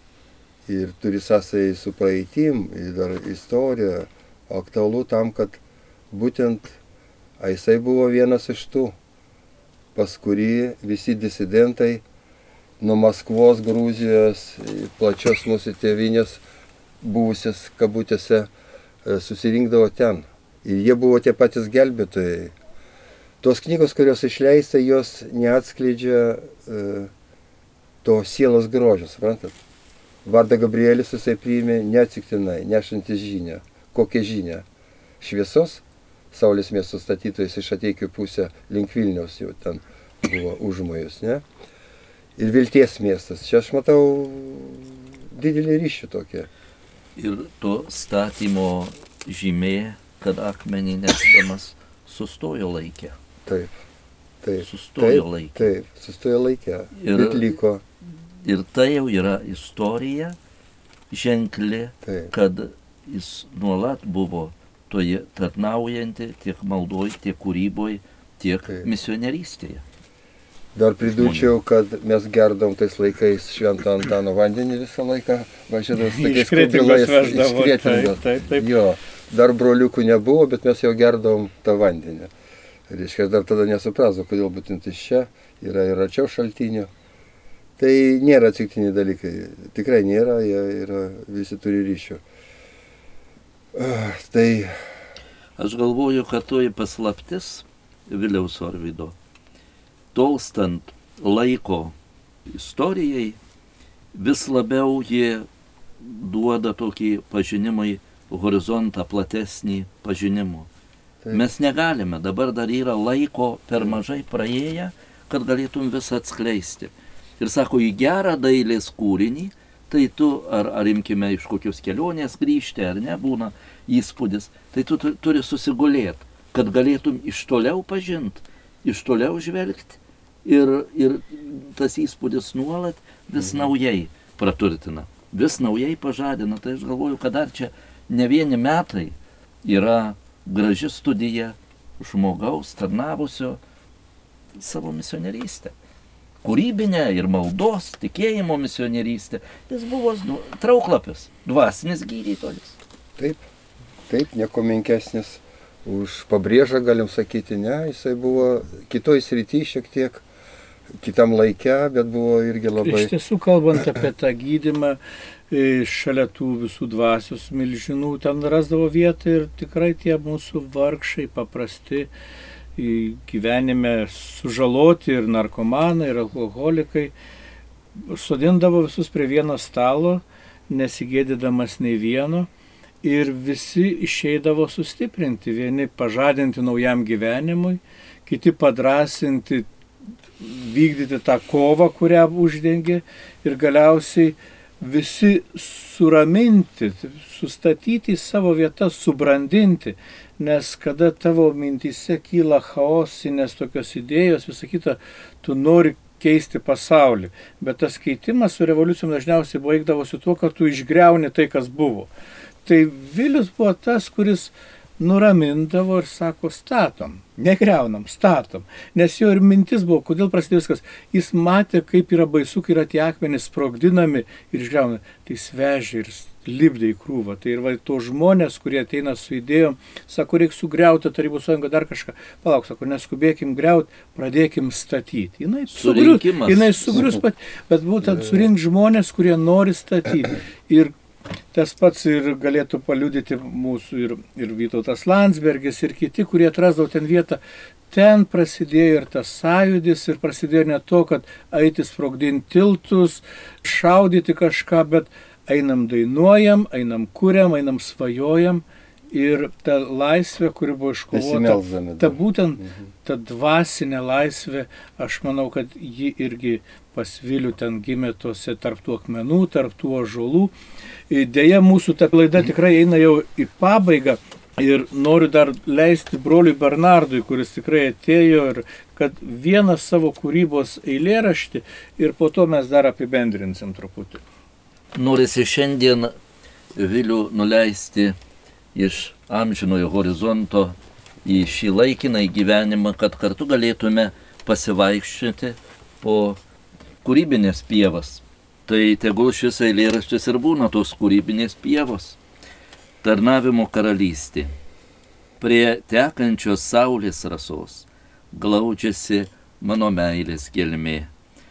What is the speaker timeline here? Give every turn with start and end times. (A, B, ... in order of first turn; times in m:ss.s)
0:00.6-0:06.8 A
0:07.4-0:08.9 A
0:09.9-0:12.0 A
0:12.8-0:16.4 A
0:17.0-0:18.5 A
0:19.0-0:22.5 A
0:23.4-0:27.1 A
0:28.0-0:29.6 A
0:30.2-0:34.6 A
0:35.2-0:41.4 A
0:42.4-0:46.5 A
0:47.2-0:53.1 B
0:53.4-0:53.7 A
0:54.4-0:57.8 A
0:54.6-0:55.7 B
0:57.0-0:57.5 B
0:58.4-1:00.4 B
1:01.1-1:09.8 B
1:02.0-1:02.3 A
1:10.7-1:22.3 A
1:11.0-1:11.5 B
1:16.0-1:18.7 C
1:22.9-1:26.9 A
1:27.8-1:32.2 A
1:33.8-1:34.7 A
1:35.6-1:39.1 B
1:40.1-1:41.9 B
1:42.5-1:43.4 B
1:44.1-1:45.5 B
1:46.0-1:50.7 B
1:51.3-2:23.6 B
2:13.4-2:13.7 A
2:24.6-2:25.7 B
2:26.4-2:32.8 B
2:34.1-2:40.2 A
2:41.0-2:43.1 A
2:42.8-2:45.0 C
2:45.5-2:52.1 C
2:52.8-2:57.1 C
2:58.0-3:02.5 C
3:03.0-3:09.7 C
3:10.4-3:32.1 C
3:32.6-4:00.9 C
3:55.7-3:57.1 B
4:01.5-4:30.5 C
4:21.1-4:22.8 A
4:31.1-4:44.2 C
4:44.9-4:46.1 B
4:46.8-4:48.2 B
4:48.7-4:56.4 B
4:57.0-5:02.2 B
5:03.0-5:04.5 B
5:05.4-5:11.1 B